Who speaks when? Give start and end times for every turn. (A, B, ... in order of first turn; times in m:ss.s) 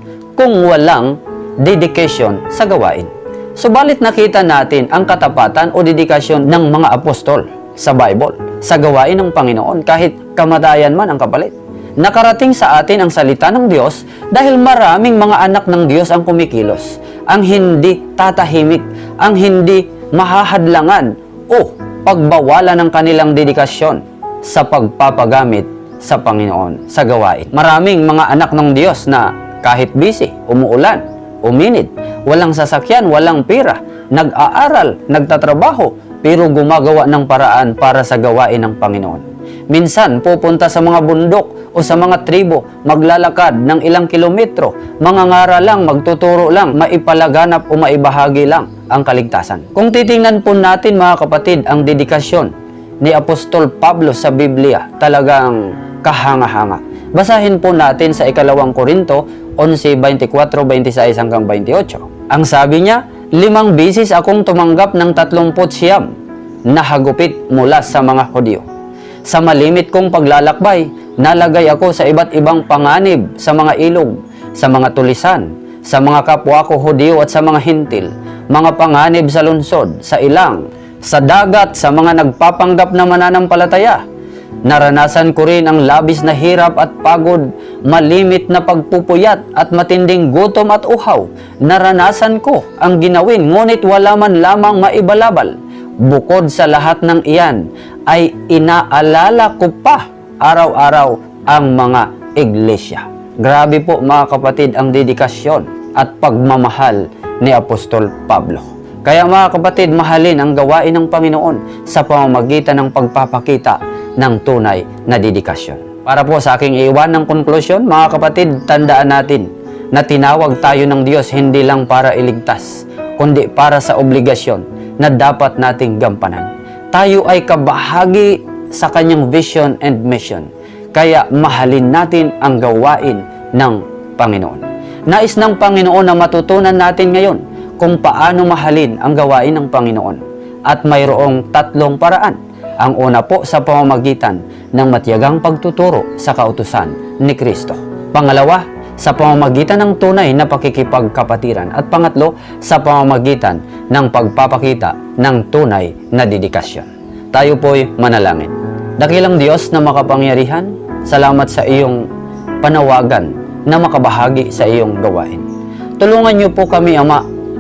0:00.4-1:06.1 A
1:06.7-1:08.7 A
1:09.2-1:24.0 A
1:24.6-2:42.0 A
2:42.6-2:45.5 A
2:46.0-2:47.2 A